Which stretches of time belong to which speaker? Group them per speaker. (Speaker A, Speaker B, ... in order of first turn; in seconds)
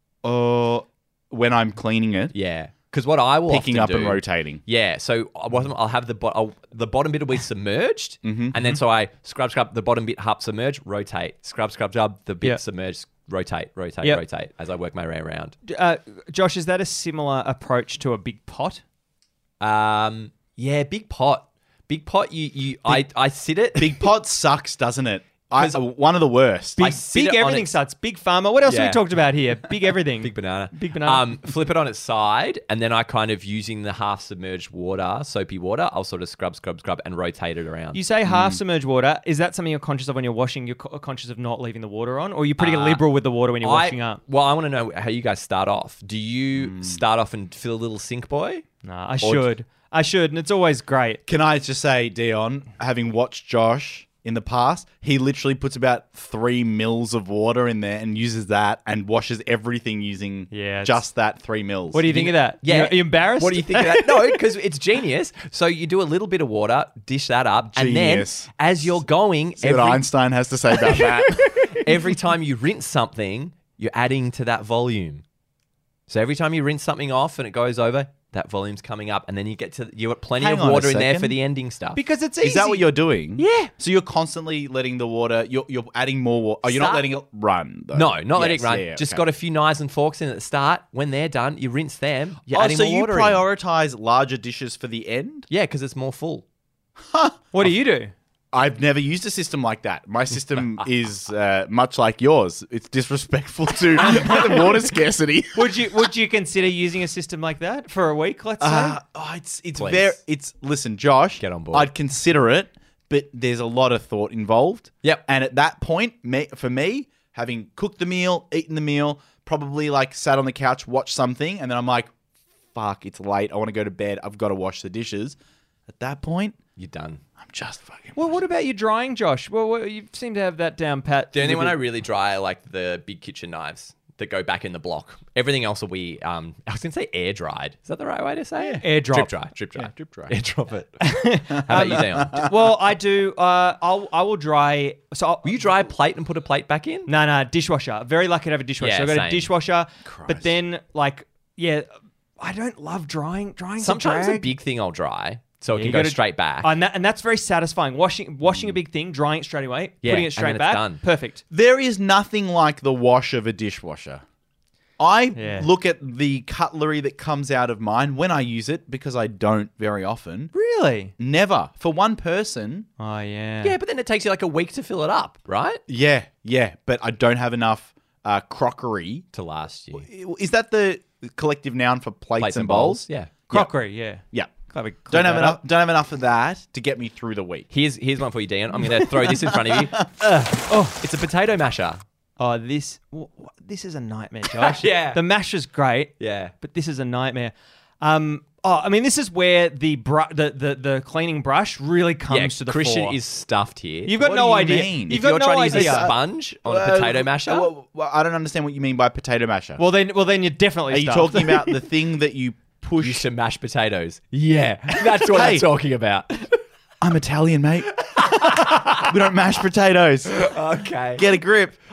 Speaker A: 0.2-2.3, 3.5-4.6, 8.2-8.8, 23.8-26.8, 38.3-38.6, 46.6-47.0, 51.3-62.1, 67.7-68.5, 69.6-71.7, 80.4-81.4, 82.4-89.2, 92.5-95.5, 97.0-97.4, 98.5-106.0, 108.6-122.1, 122.7-125.4, 125.9-126.6, 127.4-128.4, 139.8-140.3, 141.6-142.6, 150.1-150.5, 161.5-164.2, 165.0-170.5, 171.2-172.9, 175.9-179.3, 179.9-183.7, 185.1-187.7, 189.2-190.2, 204.2-209.8, 210.9-213.3, 215.3-215.7, 217.0-220.5, 221.2-221.8
Speaker B: 2.3-15.6, 19.6-24.1, 25.6-25.8, 26.8-27.7, 28.6-29.0, 30.2-38.0, 42.6-43.0, 43.6-48.6, 62.1-70.0, 71.7-75.2, 76.1-82.0, 83.4-83.7, 86.7-87.1, 87.9-93.5, 95.5-96.5, 109.8-110.2, 111.4-111.9, 126.8-127.2, 131.3-142.5, 145.4-147.1, 148.8-149.5, 153.8-156.7, 160.0-161.0, 173.6-175.8, 179.3-180.1, 182.4-183.3, 187.7-190.1, 191.0-192.0, 194.5-195.2, 196.2-196.5, 202.3-204.2, 205.1-207.7, 213.0-216.6, 218.1-219.2, 220.4-221.3
Speaker C: 15.7-18.8, 26.8-31.5, 37.9-44.2, 48.8-51.2, 60.5-61.0, 61.9-64.5, 70.8-72.0, 82.0-82.9, 97.5-98.1, 104.0-104.7, 105.5-109.0, 128.2-131.8, 138.6-139.3, 141.0-145.7, 147.1-151.9, 152.4-154.5, 155.7-161.4, 165.3-165.7, 170.5-171.1, 173.0-173.8, 183.5-185.6, 190.2-191.0, 192.4-203.2, 204.1-206.1, 209.8-211.8